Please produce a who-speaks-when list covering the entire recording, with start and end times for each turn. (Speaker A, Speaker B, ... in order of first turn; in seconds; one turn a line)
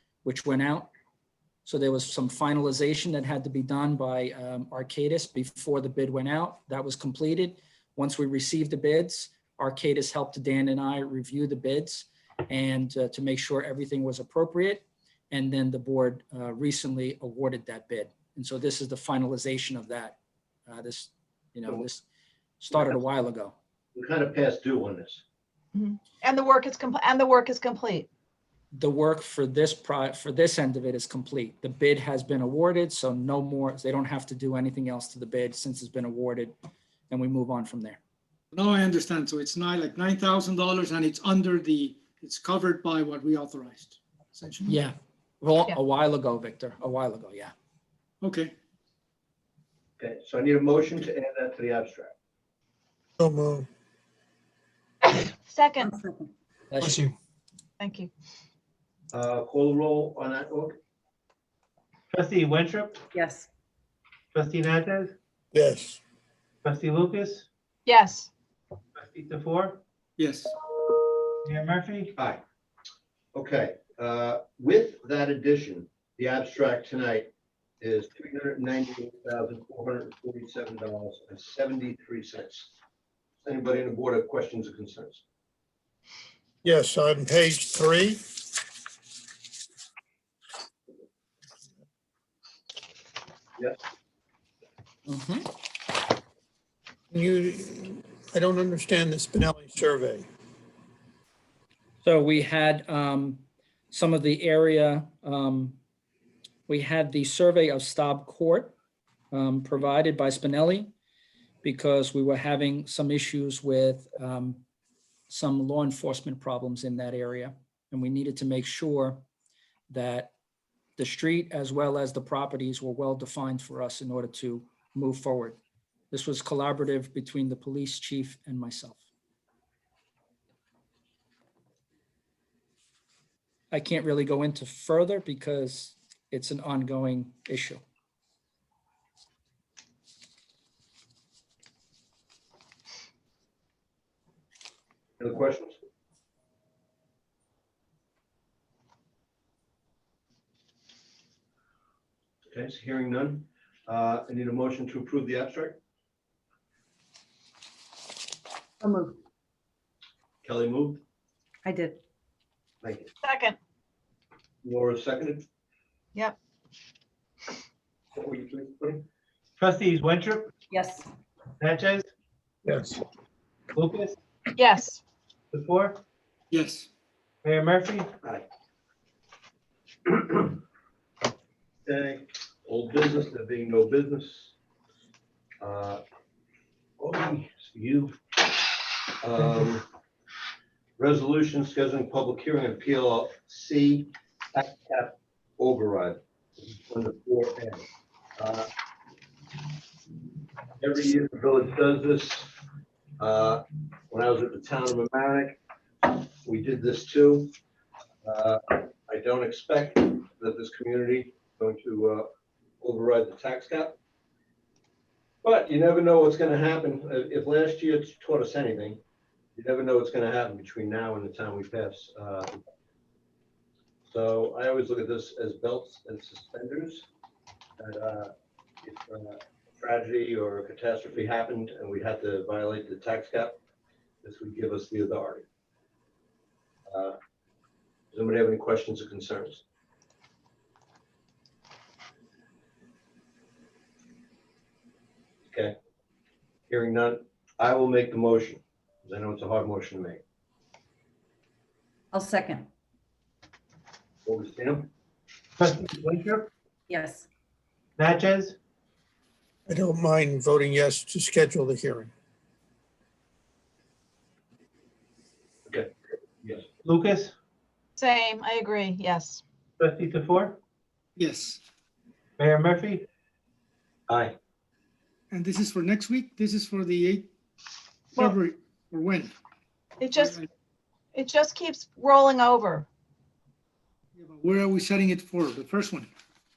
Speaker A: 0.2-0.9
Speaker A: 1.6-22.0
Speaker A: 22.6-23.6
Speaker B: 23.9-25.2
Speaker C: 25.7-28.1
Speaker A: 28.7-36.6
Speaker A: 37.1-38.0
Speaker D: 38.5-44.7
Speaker A: 44.7-47.5
Speaker D: 48.2-48.5
Speaker B: 50.0-52.1
Speaker E: 53.2-53.7
Speaker C: 55.5-56.0
Speaker A: 56.7-57.0
Speaker E: 56.8-57.1
Speaker C: 57.8-58.1
Speaker B: 59.1-60.8
Speaker F: 62.1-63.0
Speaker G: 63.1-63.5
Speaker F: 64.3-65.2
Speaker E: 65.5-66.0
Speaker F: 66.6-67.5
Speaker C: 67.9-68.3
Speaker F: 69.0-69.8
Speaker D: 70.2-70.5
Speaker F: 71.4-72.1
Speaker B: 72.2-72.4
Speaker B: 73.3-82.7
Speaker B: 83.4-85.2
Speaker E: 86.6-88.2
Speaker A: 95.1-95.5
Speaker E: 97.1-100.3
Speaker A: 102.0-105.8
Speaker A: 106.7-108.7
Speaker A: 109.3-110.9
Speaker A: 111.6-114.6
Speaker A: 115.3-119.2
Speaker A: 119.9-120.3
Speaker A: 121.0-125.6
Speaker A: 126.1-129.0
Speaker A: 133.7-137.8
Speaker B: 145.2-145.8
Speaker B: 152.5-155.8
Speaker G: 158.8-159.2
Speaker B: 160.4-161.0
Speaker G: 161.7-162.0
Speaker B: 162.8-163.1
Speaker C: 163.2-163.6
Speaker B: 164.6-165.4
Speaker B: 168.1-169.1
Speaker F: 169.6-170.5
Speaker G: 170.7-171.1
Speaker F: 171.6-172.1
Speaker E: 172.7-173.0
Speaker F: 173.7-174.2
Speaker C: 174.5-175.0
Speaker F: 175.5-176.0
Speaker D: 176.5-176.9
Speaker F: 177.4-178.1
Speaker B: 180.1-180.6
Speaker B: 181.9-184.5
Speaker B: 185.6-186.0
Speaker B: 187.0-189.9
Speaker B: 191.0-197.9
Speaker B: 198.4-198.7
Speaker B: 200.8-202.6
Speaker B: 203.2-207.5
Speaker B: 208.2-212.3
Speaker B: 212.8-214.0
Speaker B: 215.4-219.0
Speaker B: 219.6-222.6
Speaker B: 224.1-227.1
Speaker B: 227.8-228.3
Speaker B: 228.8-233.6
Speaker B: 234.2-235.4
Speaker B: 236.9-237.2
Speaker B: 238.1-239.6
Speaker B: 245.5-245.8
Speaker B: 246.7-250.2
Speaker G: 252.1-252.7
Speaker B: 254.3-254.9
Speaker F: 255.6-256.5
Speaker G: 256.9-257.2
Speaker F: 258.0-258.6
Speaker E: 259.7-262.1
Speaker B: 266.4-266.7
Speaker F: 266.8-267.3
Speaker C: 268.0-269.4
Speaker F: 269.8-270.6
Speaker D: 271.2-271.6
Speaker F: 272.4-273.1
Speaker B: 274.1-274.4
Speaker D: 275.3-277.3
Speaker D: 278.1-279.3
Speaker C: 280.0-280.4
Speaker C: 281.1-282.9
Speaker D: 284.2-286.1